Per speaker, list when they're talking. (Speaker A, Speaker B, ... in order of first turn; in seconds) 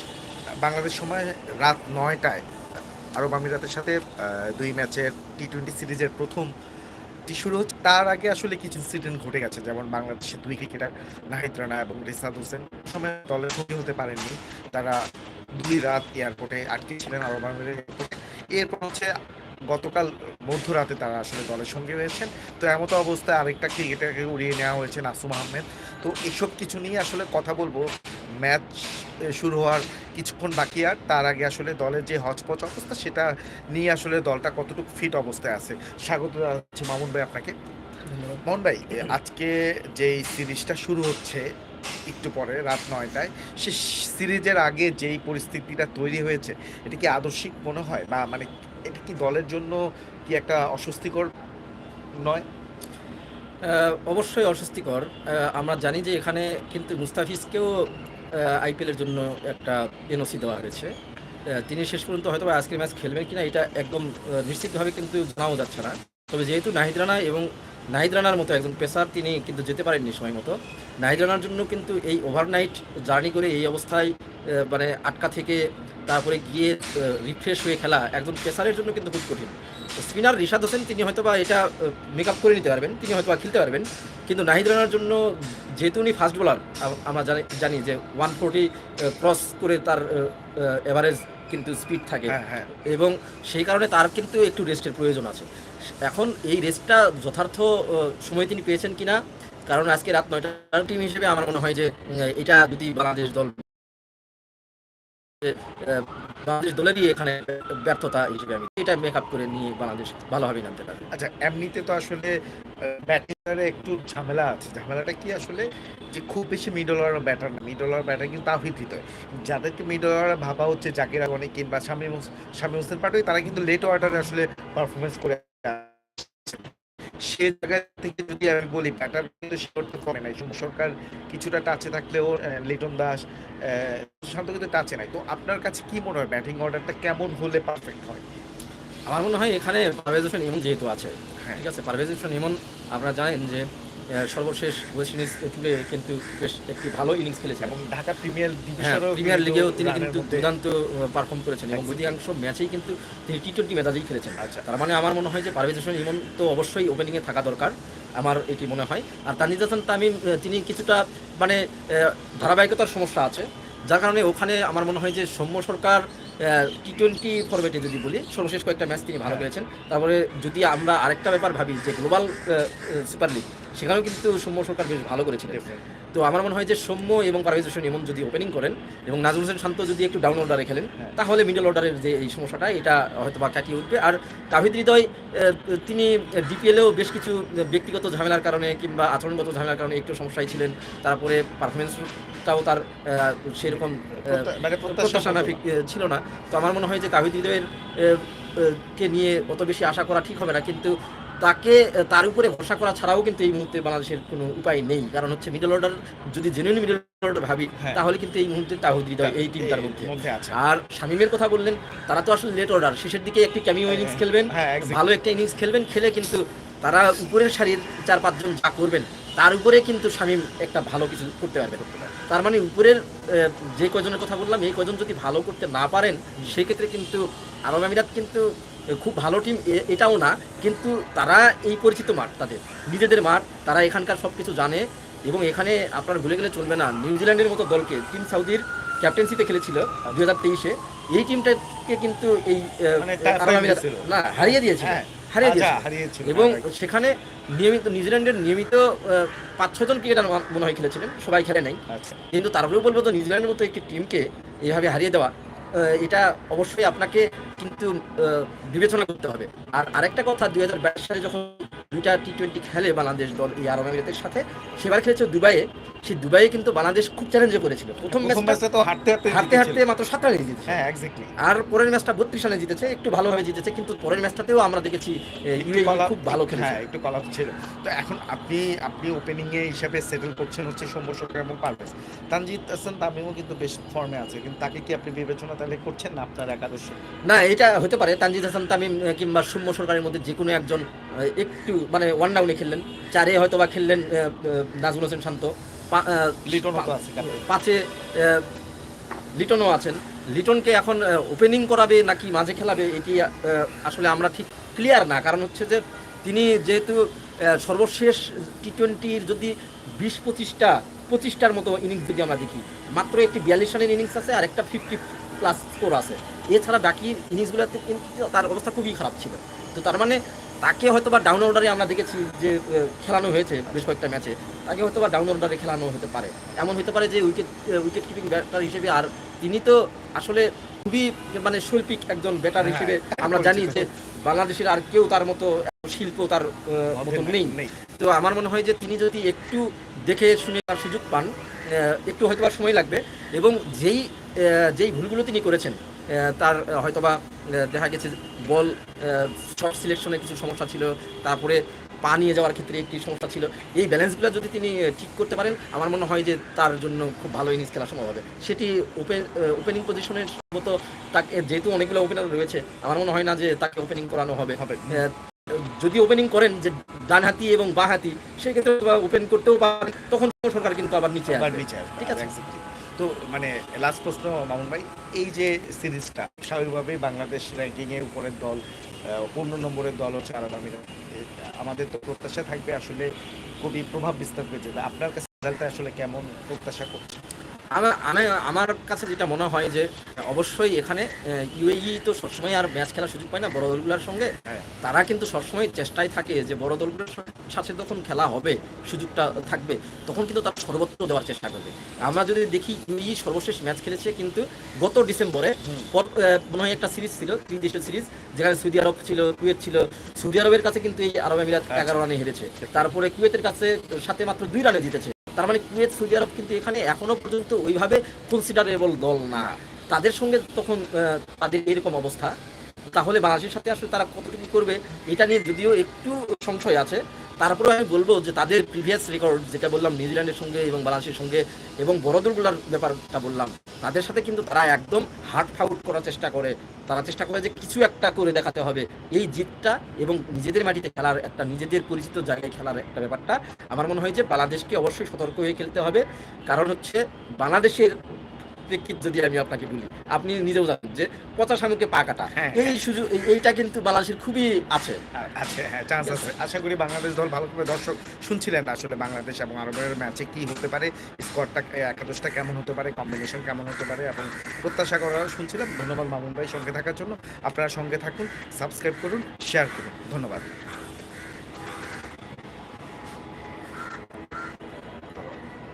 Speaker A: 0.6-2.4, 3.2-6.5, 7.3-15.0, 15.6-19.1, 19.7-27.9, 28.4-37.5, 38.5-41.4, 42.1-51.3, 92.3-92.7, 111.1-112.3, 112.8-126.7, 127.3-138.2, 147.6-150.5, 151.7-152.2, 154.4-154.7, 175.5-175.8, 193.7-195.6, 209.2-210.6, 213.9-215.0, 221.8-222.1, 243.0-246.7, 251.9-252.2, 268.1-269.8, 270.7-271.4, 275.6-287.0, 296.5-297.5, 332.6-333.9, 336.9-337.8, 364.6-365.1, 371.3-378.6, 379.2-383.1, 383.6-387.2, 405.6-405.9, 411.7-412.1, 412.6-412.9, 452.4-452.8, 455.2-470.5
Speaker B: 38.1-38.4, 53.6-57.7, 58.4-60.9, 61.5-92.3, 92.9-95.5, 96.0-103.6, 105.4-111.1, 139.1-147.7, 148.8-175.6, 176.1-251.8, 252.3-268.6, 269.3-270.8, 271.4-276.8, 287.3-298.5, 299.4-372.3, 387.8-422.3, 422.9-455.0